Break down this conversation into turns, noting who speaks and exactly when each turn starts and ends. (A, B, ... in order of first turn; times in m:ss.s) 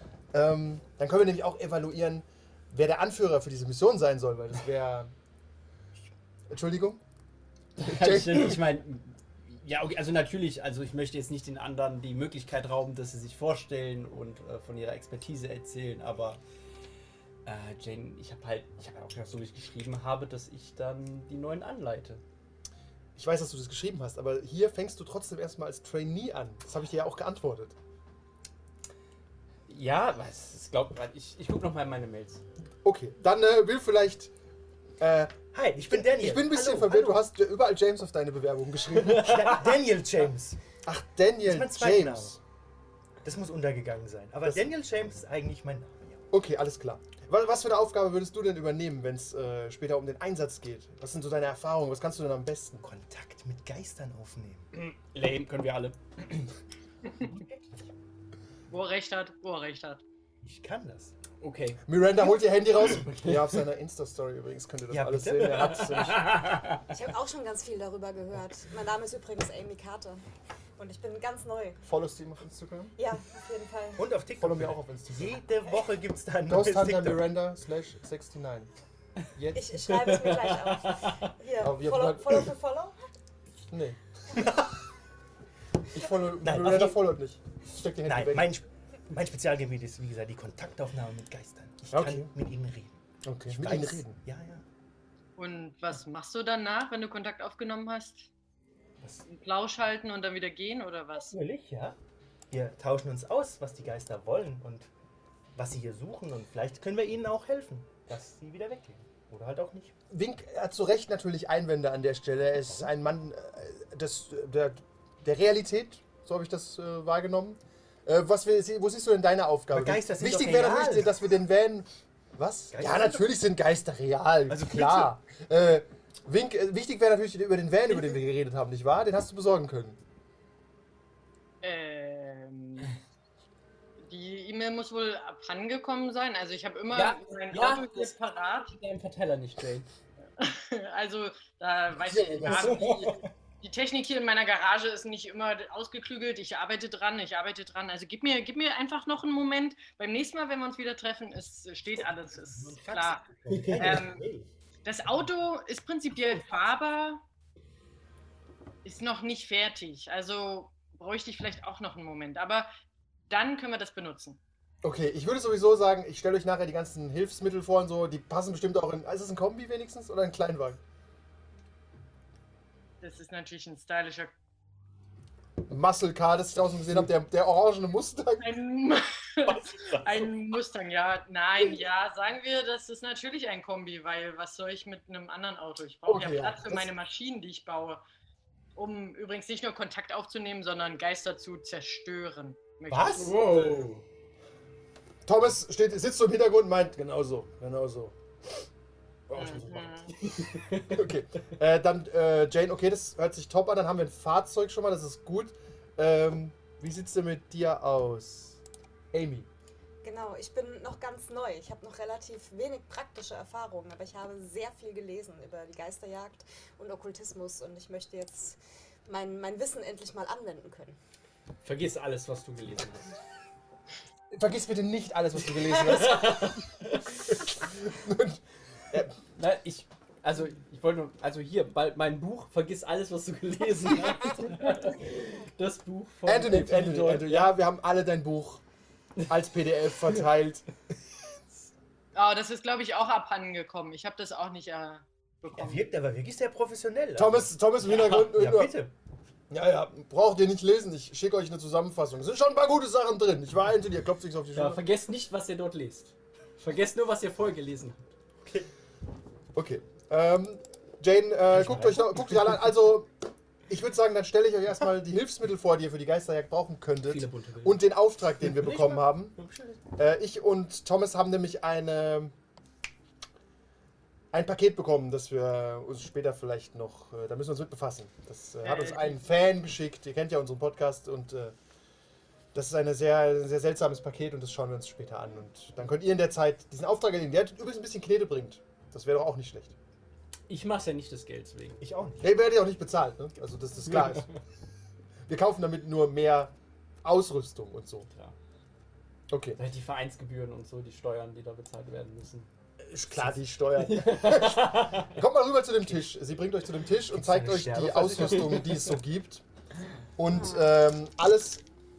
0:00.3-0:05.1 A
0:06.5-0:07.0 A
0:07.8-0:16.4 B
0:07.8-0:08.6 A
0:17.4-0:22.2 B
0:23.2-0:27.8 A
0:29.7-0:32.4 B
0:32.8-0:34.3 A
0:35.0-0:39.6 A
0:35.5-0:37.2 C
0:39.1-0:40.6 C
0:40.8-0:42.4 A
0:41.4-0:42.4 C
0:43.2-0:46.2 C
0:44.4-0:44.7 A
0:46.3-0:52.9 A
0:52.8-0:54.7 C
0:54.7-0:56.5 B
0:57.2-0:57.6 C
0:58.7-1:00.0 D
1:00.4-1:01.1 C
1:01.4-1:01.8 B
1:01.8-1:06.5 A
1:02.8-1:03.6 B
1:04.9-1:05.8 C
1:05.6-1:06.9 B
1:06.9-1:10.2 E
1:10.8-1:11.8 E
1:11.8-1:12.9 A
1:13.0-1:14.1 E
1:14.0-1:17.2 C
1:14.4-1:15.4 A
1:16.4-1:18.7 A
1:19.4-1:19.7 A
1:19.5-1:23.0 E
1:19.8-1:21.3 B
1:21.6-1:22.5 A
1:23.7-1:24.0 A
1:24.3-1:24.8 C
1:25.9-1:28.5 A
1:26.4-1:27.0 C
1:28.0-1:34.6 C
1:31.9-1:32.3 A
1:33.2-1:34.2 A
1:35.4-1:38.3 D
1:39.0-1:39.2 C
1:39.3-1:41.3 D
1:41.2-1:42.0 C
1:42.5-1:44.9 C
1:45.5-1:49.9 C
1:50.1-2:10.0 A
1:59.7-2:01.1 C
2:02.7-2:03.3 C
2:04.5-2:05.1 C
2:11.6-2:13.0 D
2:14.1-2:18.7 D
2:16.9-2:19.9 B
2:20.4-2:34.3 D
2:22.0-2:23.0 A
2:22.5-2:23.2 B
2:32.0-2:34.5 C
2:33.5-2:34.0 B
2:34.8-2:37.2 D
2:36.2-2:36.6 C
2:38.8-2:42.7 D
2:43.3-2:44.4 D
2:44.8-2:50.8 A
2:53.0-2:54.3 D
2:55.7-2:58.5 A
2:58.4-3:08.0 D
2:59.5-3:00.3 C
3:06.0-3:06.9 A
3:08.8-3:13.8 D
3:12.9-3:13.4 C
3:13.2-3:14.0 B
3:15.2-3:18.1 A
3:19.3-3:19.9 A
3:19.3-3:20.3 D
3:20.3-3:21.0 B
3:20.8-3:29.5 A
3:30.0-3:41.0 E
3:41.6-3:43.1 B
3:44.3-3:46.6 A
3:45.7-3:47.3 B
3:47.4-3:48.4 A
3:49.3-3:57.5 B
3:56.2-3:58.6 A
3:59.3-4:00.6 A
4:02.1-4:05.9 D
4:05.6-4:08.9 C
4:07.2-4:08.8 A
4:09.5-4:14.8 A
4:14.5-4:18.1 B
4:18.4-4:18.7 C
4:19.5-4:23.1 A
4:21.5-4:22.6 C
4:23.7-4:29.4 A
4:27.1-4:27.8 B
4:28.4-4:29.8 C
4:30.0-4:32.3 A
4:34.3-4:41.5 A
4:38.6-4:39.2 D
4:42.5-4:49.7 A
4:50.5-4:51.8 B
4:51.8-4:52.3 C
4:52.2-4:54.3 A
4:54.0-4:54.3 B
4:55.3-4:58.1 A
4:58.1-4:58.4 B
4:59.3-4:59.6 A
4:59.6-5:02.5 B
5:02.8-5:09.4 A
5:03.8-5:05.2 B
5:07.1-5:08.7 C
5:10.2-5:11.6 A
5:10.3-5:10.7 E